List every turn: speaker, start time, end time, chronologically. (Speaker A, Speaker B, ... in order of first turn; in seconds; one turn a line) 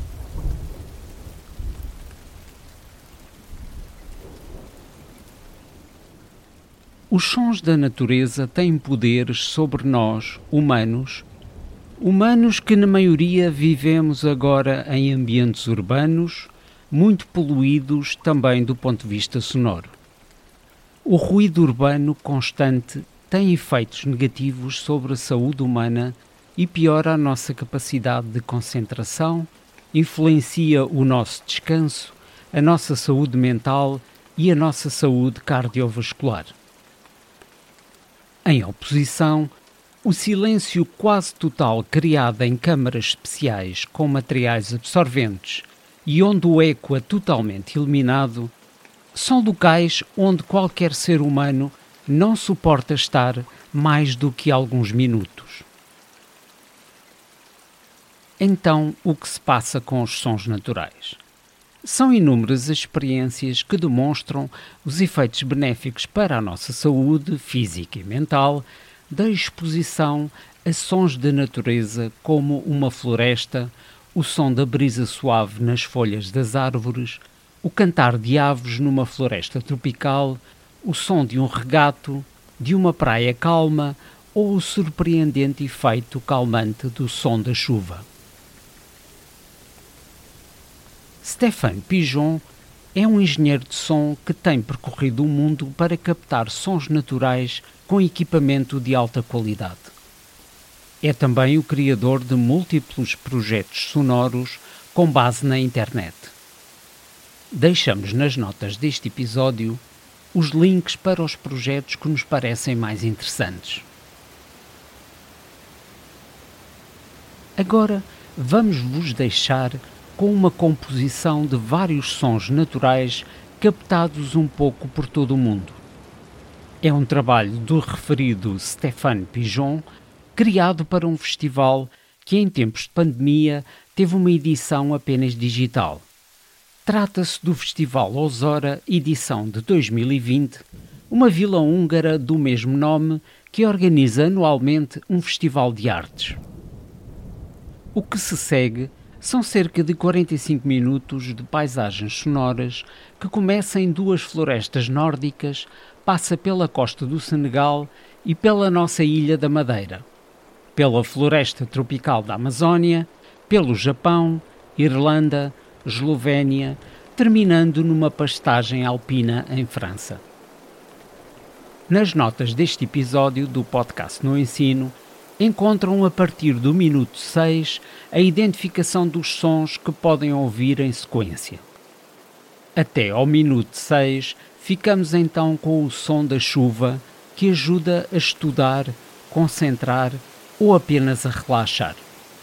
Speaker A: 7.1-11.3
Speaker A: 12.0-19.9
Speaker A: 21.0-36.5
Speaker A: 38.4-48.5
Speaker A: 49.1-55.6
Speaker A: 58.4-61.2
Speaker A: 61.8-88.0
Speaker A: 91.2-99.9
Speaker A: 101.0-106.3
Speaker A: 107.5-109.8
Speaker A: 110.3-113.8
Speaker A: 117.6-125.8
Speaker A: 126.8-136.1
Speaker A: 136.8-146.4
Speaker A: 147.9-160.1
Speaker A: 160.8-170.2
Speaker A: 171.9-181.7
Speaker A: 182.7-192.1